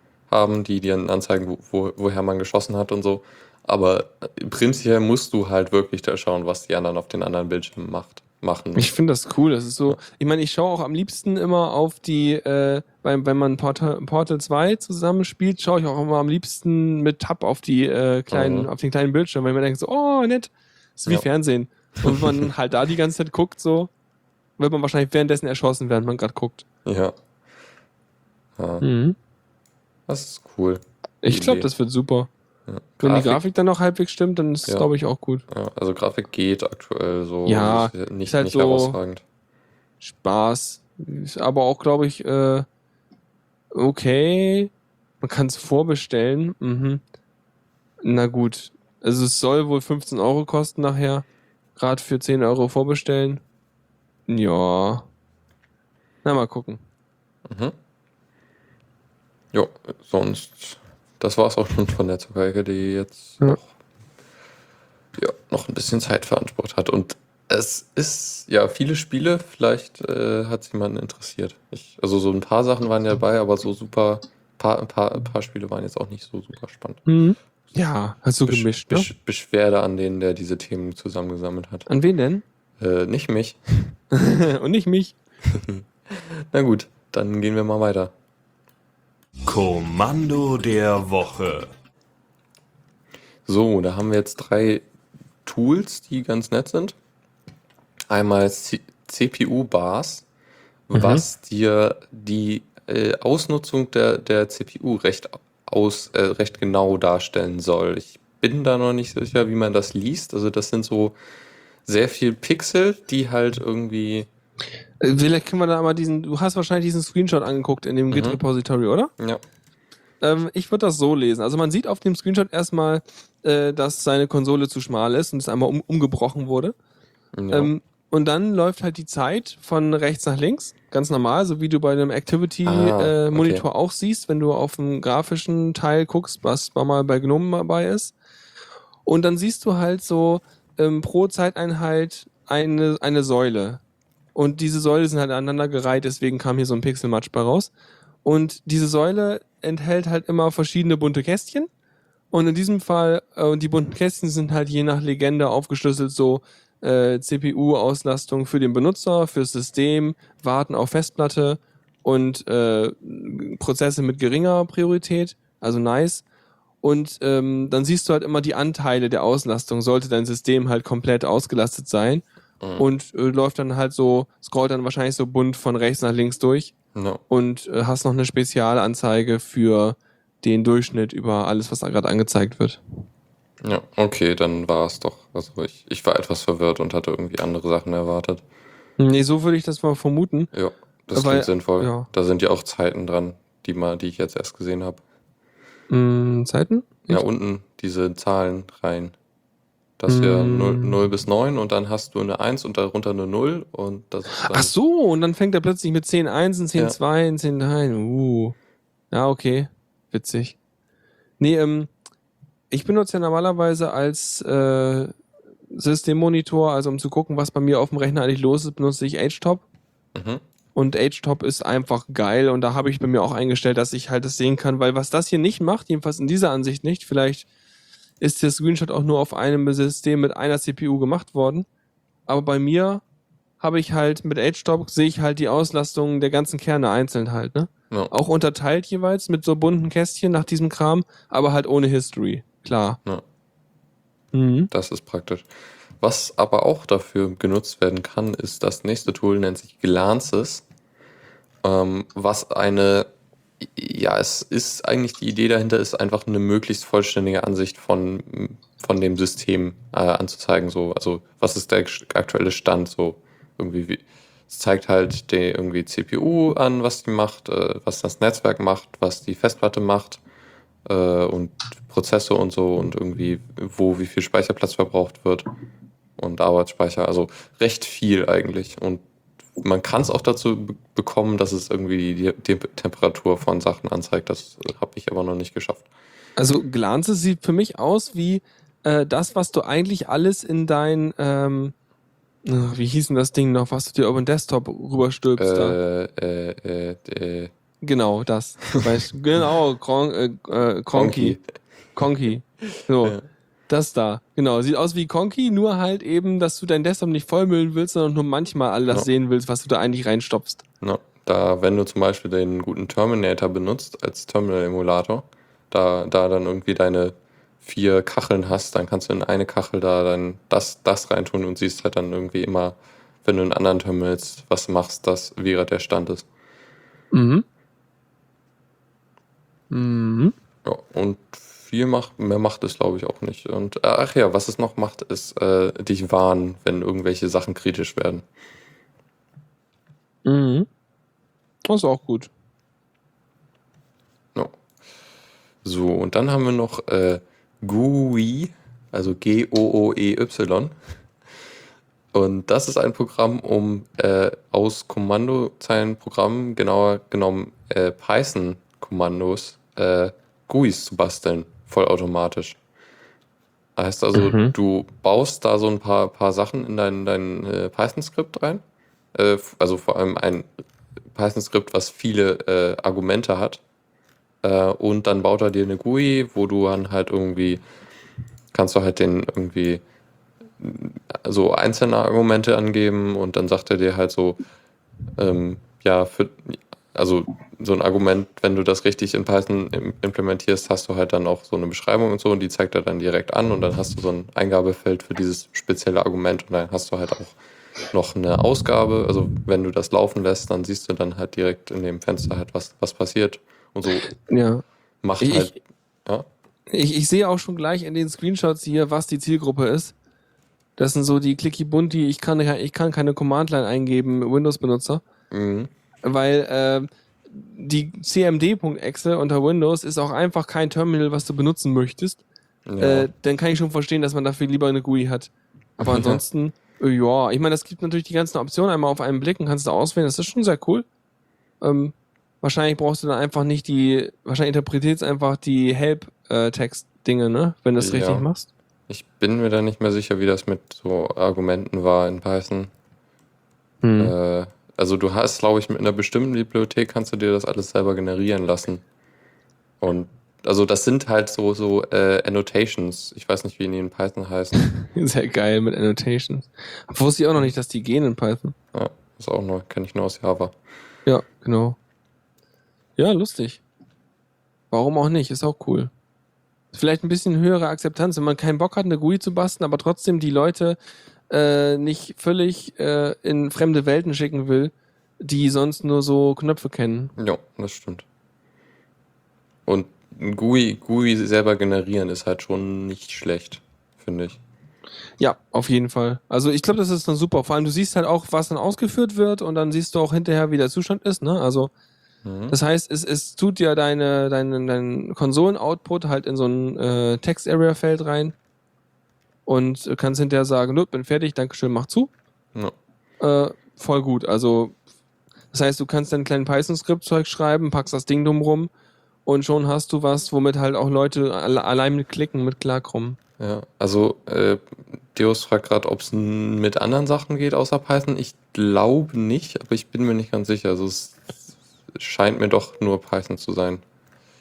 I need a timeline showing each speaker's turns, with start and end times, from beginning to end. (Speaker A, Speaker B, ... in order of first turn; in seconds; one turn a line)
Speaker A: 0.3-8.9
Speaker B: 8.8-23.9
Speaker A: 18.3-18.7
Speaker A: 22.0-22.5
Speaker B: 24.6-26.6
Speaker A: 26.8-27.1
Speaker A: 28.6-28.8
Speaker B: 28.8-29.1
Speaker A: 30.1-31.7
Speaker B: 31.2-32.3
Speaker A: 32.7-33.4
Speaker B: 33.0-35.4
Speaker A: 35.5-39.2
Speaker B: 37.5-39.0
Speaker B: 40.0-42.6
Speaker B: 43.7-47.0
Speaker B: 48.0-51.2
Speaker B: 51.8-53.4
Speaker B: 54.3-55.0
Speaker B: 56.2-56.8
Speaker A: 57.5-57.7
Speaker A: 59.5-63.7
Speaker A: 65.2-77.0
Speaker B: 77.0-79.1
Speaker A: 78.5-81.9
Speaker B: 81.9-82.4
Speaker A: 82.8-84.0
Speaker B: 84.1-85.2
Speaker A: 85.5-88.1
Speaker C: 89.5-91.7
Speaker A: 93.5-94.8
Speaker A: 95.4-97.0
Speaker A: 98.1-100.2
Speaker A: 100.9-111.1
Speaker B: 100.9-101.2
Speaker A: 111.8-114.3
Speaker B: 115.0-119.1
Speaker A: 118.1-118.4
Speaker B: 120.2-126.7
Speaker A: 127.3-127.7
Speaker B: 127.5-138.1
Speaker A: 132.7-133.6
Speaker B: 139.1-143.8
Speaker B: 144.3-147.7
Speaker B: 148.2-151.7
Speaker B: 152.3-166.2
Speaker B: 166.8-172.2
Speaker A: 172.6-172.8
Speaker B: 172.8-176.7
Speaker A: 176.9-177.2
Speaker B: 177.3-182.8
Speaker A: 183.6-188.4
Speaker B: 189.0-190.5
Speaker A: 190.5-195.0
Speaker B: 191.1-192.1
Speaker B: 195.9-197.2
Speaker A: 197.1-199.1
Speaker A: 200.0-204.7
Speaker B: 200.1-201.0
Speaker B: 204.3-208.5
Speaker B: 209.1-210.6
Speaker B: 211.4-211.9
Speaker B: 212.7-215.1
Speaker B: 215.7-219.6
Speaker A: 220.1-220.4
Speaker B: 220.7-227.4
Speaker B: 228.2-231.7
Speaker B: 232.3-233.0
Speaker B: 233.6-243.0
Speaker B: 244.3-244.7
Speaker A: 244.7-245.5
Speaker A: 246.0-250.6
Speaker A: 251.6-253.1
Speaker A: 253.6-270.2
Speaker A: 270.8-275.4
Speaker A: 276.2-279.0
Speaker A: 279.6-285.9
Speaker B: 286.4-291.7
Speaker B: 292.4-295.8
Speaker A: 295.4-297.5
Speaker B: 297.8-301.4
Speaker A: 300.9-301.4
Speaker B: 301.9-303.1
Speaker A: 302.6-303.2
Speaker B: 303.7-310.6
Speaker A: 310.8-326.2
Speaker B: 327.1-327.4
Speaker B: 329.7-330.3
Speaker A: 330.6-338.2
Speaker B: 340.2-340.7
Speaker B: 341.6-342.3
Speaker A: 345.6-350.7
Speaker A: 352.1-362.6
Speaker A: 363.8-368.6
Speaker B: 364.1-364.5
Speaker A: 369.1-370.5
Speaker A: 371.1-373.6
Speaker A: 374.4-377.6
Speaker A: 378.5-379.8
Speaker A: 380.6-384.4
Speaker A: 385.2-397.4
Speaker A: 397.9-404.1
Speaker B: 404.2-404.6
Speaker A: 405.0-406.3
Speaker B: 405.2-405.5
Speaker B: 406.7-409.9
Speaker B: 410.8-415.0
Speaker A: 415.3-415.7
Speaker B: 416.0-422.2
Speaker A: 422.6-423.1
Speaker B: 422.8-430.9
Speaker A: 425.8-426.2
Speaker B: 431.6-438.5
Speaker A: 437.8-438.3
Speaker A: 438.9-442.7
Speaker B: 443.8-444.1
Speaker A: 444.0-448.8
Speaker A: 449.8-454.6
Speaker B: 454.6-458.5
Speaker A: 458.7-460.5
Speaker B: 461.1-461.8
Speaker B: 463.0-463.6
Speaker B: 464.7-465.9
Speaker B: 466.7-470.8
Speaker B: 471.3-477.1
Speaker A: 477.2-478.0
Speaker A: 479.6-484.4
Speaker B: 485.2-491.7
Speaker A: 492.2-492.5
Speaker B: 492.5-498.3
Speaker B: 499.4-502.1
Speaker B: 503.2-504.8
Speaker B: 505.5-508.7
Speaker B: 509.2-513.2
Speaker A: 513.4-523.8